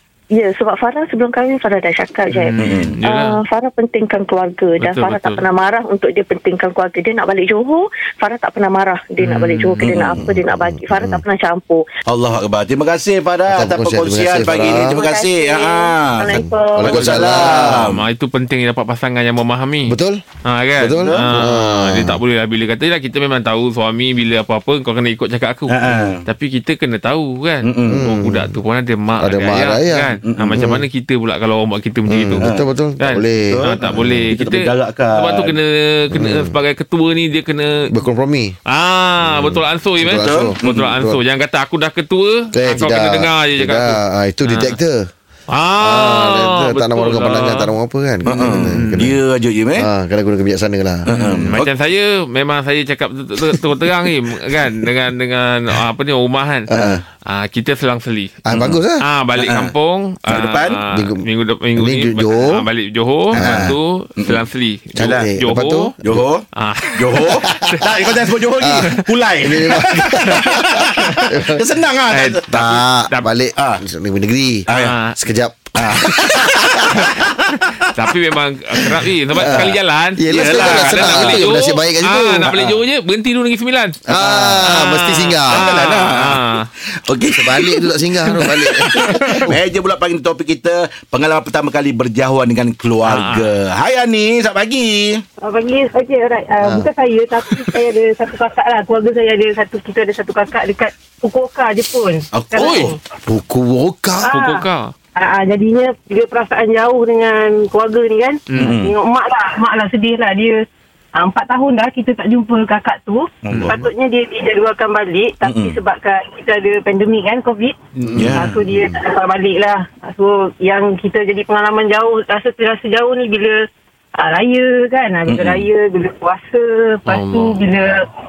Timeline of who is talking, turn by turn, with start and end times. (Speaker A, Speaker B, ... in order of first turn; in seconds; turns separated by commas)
Speaker A: 0.3-11.8, Speaker B: 2.3-3.4, Speaker C: 2.6-3.0, Speaker B: 4.8-5.4, Speaker B: 9.2-9.9, Speaker C: 9.8-10.3, Speaker D: 10.2-11.2, Speaker C: 12.1-18.0, Speaker D: 13.5-15.0, Speaker A: 14.5-17.6, Speaker D: 16.3-17.9, Speaker B: 17.7-37.9, Speaker D: 19.9-20.2, Speaker D: 20.8-22.2, Speaker C: 20.9-21.3, Speaker C: 25.7-26.2, Speaker C: 27.6-28.0, Speaker D: 27.9-28.6, Speaker D: 29.2-30.9, Speaker C: 30.3-30.6, Speaker D: 32.1-34.3, Speaker C: 32.4-32.7, Speaker C: 33.5-35.6, Speaker D: 36.1-36.6, Speaker D: 37.9-38.6, Speaker B: 38.7-44.8, Speaker D: 39.2-41.2, Speaker C: 40.2-40.9, Speaker D: 42.5-45.1, Speaker B: 45.5-47.7, Speaker D: 45.8-49.2, Speaker C: 48.2-49.9, Speaker B: 48.7-49.0, Speaker D: 49.8-51.5, Speaker C: 51.1-51.7, Speaker B: 51.1-65.9, Speaker D: 56.7-57.0, Speaker C: 56.7-57.0, Speaker D: 58.5-59.0, Speaker C: 59.4-59.7, Speaker C: 60.3-60.8, Speaker D: 60.9-62.7, Speaker C: 63.3-64.4, Speaker D: 63.4-63.8, Speaker D: 65.0-66.2, Speaker C: 65.0-65.3, Speaker C: 66.0-66.5, Speaker B: 66.6-68.0, Speaker C: 67.0-72.7, Speaker D: 67.2-67.7, Speaker D: 68.6-71.8, Speaker B: 68.8-69.1, Speaker B: 70.3-70.6, Speaker B: 72.1-73.3, Speaker D: 72.5-76.7, Speaker C: 73.6-73.8, Speaker C: 74.7-75.0, Speaker B: 74.7-75.2, Speaker C: 75.8-77.3, Speaker B: 76.9-86.7, Speaker C: 79.3-79.7, Speaker D: 79.3-82.7, Speaker C: 80.3-81.6, Speaker C: 82.4-82.8, Speaker D: 84.1-85.7, Speaker C: 84.2-84.6, Speaker C: 85.5-86.4, Speaker C: 87.1-95.2, Speaker D: 87.3-89.6, Speaker B: 89.0-89.6, Speaker B: 93.0-93.5, Speaker E: 95.4-103.0, Speaker D: 96.6-96.9, Speaker C: 102.3-103.0, Speaker B: 102.6-102.9, Speaker D: 103.3-104.3, Speaker E: 104.2-110.7, Speaker B: 104.3-104.9, Speaker B: 108.5-108.8, Speaker C: 108.5-109.0, Speaker E: 111.2-117.8, Speaker C: 113.5-113.9, Speaker B: 113.5-113.8, Speaker C: 115.4-115.8, Speaker B: 118.0-118.3, Speaker C: 118.1-119.0, Speaker D: 118.1-118.4, Speaker E: 118.3-123.6, Speaker E: 124.2-128.1, Speaker C: 125.3-125.7, Speaker B: 127.1-127.6